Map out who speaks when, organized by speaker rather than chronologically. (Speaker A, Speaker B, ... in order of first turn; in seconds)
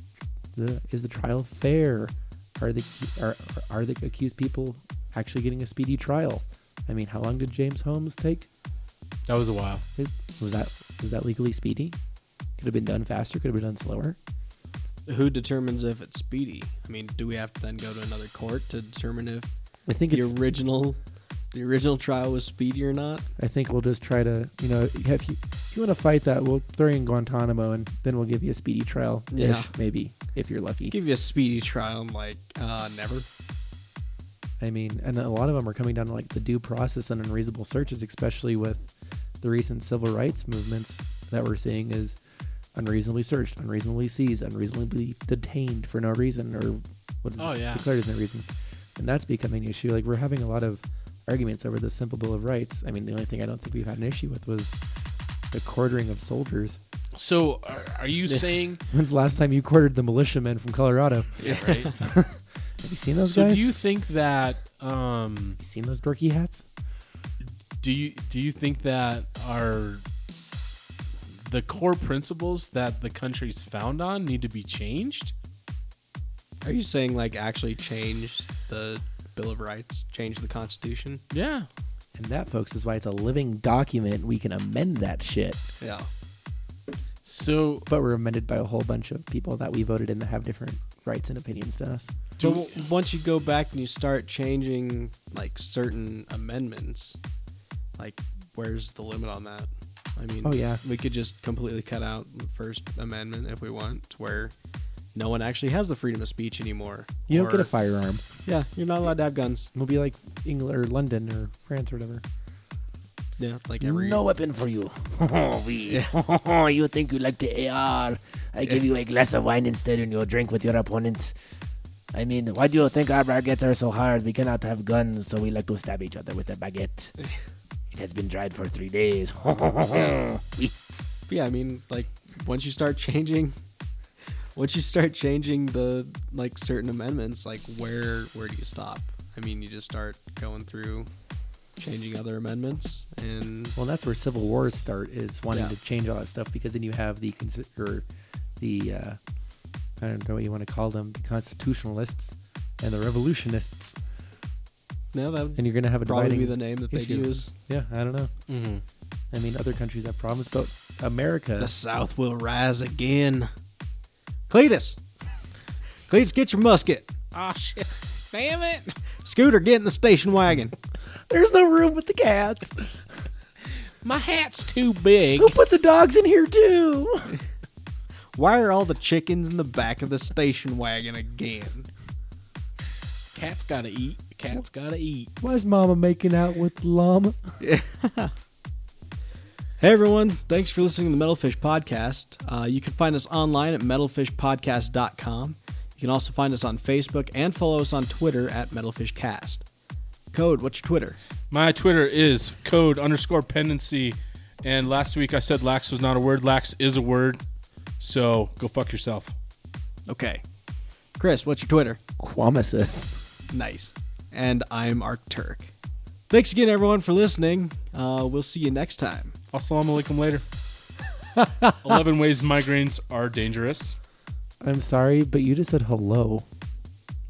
Speaker A: 0.5-8.5, 10.0-11.9, 12.6-14.2, 19.9-20.5, 23.4-30.9, 34.6-42.2, 42.7-54.7, 55.5-56.8, 58.3-61.3, 61.9-63.6, 65.6-66.7, 82.1-85.6, 87.9-92.1, 100.4-100.8, 107.3-108.2, 109.7-112.2, 143.8-148.0, 148.6-149.2, 150.0-153.9, 155.6-158.3, 159.3-161.7, 171.3-173.0, 175.4-177.4, 185.4-187.6, 212.2-213.2, 221.3-221.7, 224.6-226.4
Speaker B: 9.3-9.8, 47.4-47.9, 57.1-58.8, 61.4-61.9, 63.2-65.6, 67.8-70.0, 71.3-75.3, 81.3-81.7, 87.2-87.9, 92.4-92.7, 158.5-158.8, 167.3-168.9, 174.0-175.5, 183.3-185.3, 201.5-207.4, 208.0-209.3, 219.5-220.4, 221.8-224.0
Speaker C: 15.1-19.5, 20.1-21.0, 21.5-23.2, 29.3-29.7, 30.9-33.2, 61.4-62.0, 76.6-81.2, 85.8-86.1, 92.4-97.2, 98.0-104.5, 105.1-107.7, 108.5-109.7, 113.4-114.2, 131.3-133.5, 134.5-141.1, 141.8-143.7, 155.1-157.5, 161.6-163.5, 164.5-165.0, 166.1-167.1, 169.2-170.7, 178.3-181.9, 187.6-188.3, 189.8-199.6, 200.3-201.2, 210.1-210.4, 211.2-212.0, 213.5-215.7, 216.3-219.3
Speaker D: 113.8-121.3, 122.1-127.1, 127.9-130.7